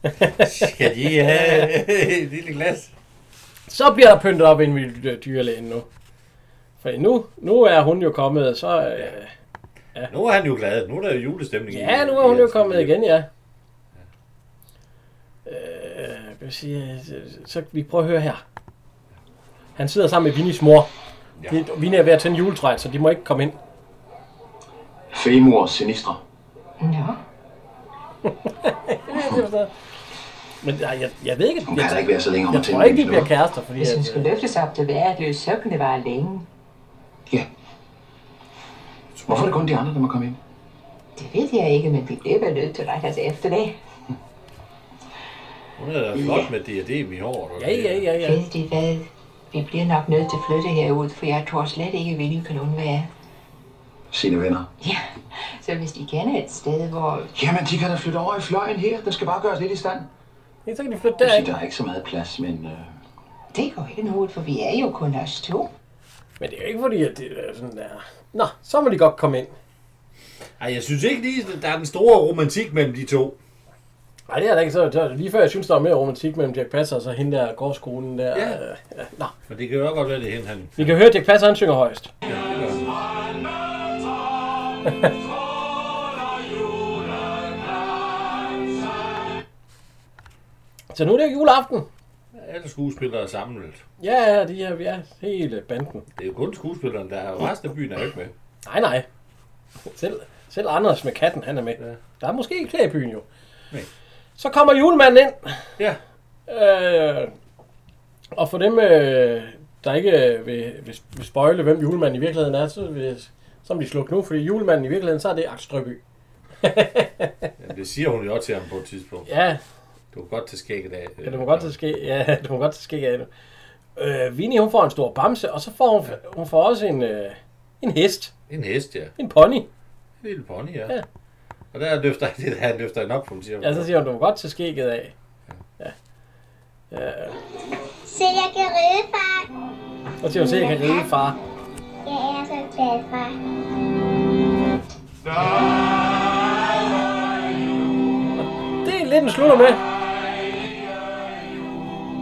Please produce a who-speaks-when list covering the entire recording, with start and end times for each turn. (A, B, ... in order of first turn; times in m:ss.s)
0:00.2-0:01.7 A
0:00.4-0:02.9 B
0:03.7-0:05.9 A
0:06.8-0:09.3 A
0:10.1-0:13.0 B
0:11.7-0:13.3 A
0:15.5-0:18.4 A
0:19.8-0:20.9 A
0:21.5-0:23.6 A
0:25.1-0:26.2 C
0:26.8-0:27.2 D
0:28.3-0:29.7 A
0:30.6-0:34.3 A
0:31.7-0:33.3 C
0:33.8-0:36.5 D
0:39.2-0:39.6 B
0:39.3-0:40.4 C
0:41.2-0:43.8 D
0:45.8-0:48.1 B
0:47.6-0:48.4 A
0:48.2-0:53.1 D
0:54.1-0:54.7 C
0:54.8-0:57.3 D
0:57.3-1:00.1 C
1:00.7-1:01.5 A
1:01.2-1:02.9 C
1:03.5-1:05.7 D
1:06.4-1:09.5 A
1:10.6-1:13.4 B
1:14.3-1:19.3 A
1:18.3-1:18.6 B
1:19.5-1:21.0 B
1:20.8-1:22.1 A
1:22.3-1:22.8 B
1:30.9-1:31.9 A
1:32.3-1:33.8 B
1:34.0-1:36.0 A
1:36.2-1:38.3 B
1:38.7-1:39.1 A
1:39.9-1:43.3 A
1:44.4-1:45.7 A
1:46.5-1:47.3 A
1:48.4-1:56.0 A
1:56.6-1:57.5 A
1:57.6-1:59.3 B
1:59.3-1:59.6 A
2:00.1-2:01.8 B
2:01.2-2:03.3 A
2:04.0-2:08.3 A
2:08.5-2:09.1 B
2:09.2-2:09.7 A
2:10.2-2:11.0 B
2:11.7-2:13.9 B
2:13.6-2:15.1 A
2:16.9-2:17.4 A
2:18.0-2:19.5 E
2:20.2-2:21.4 A
2:22.0-2:23.4 E
2:28.8-2:29.8 A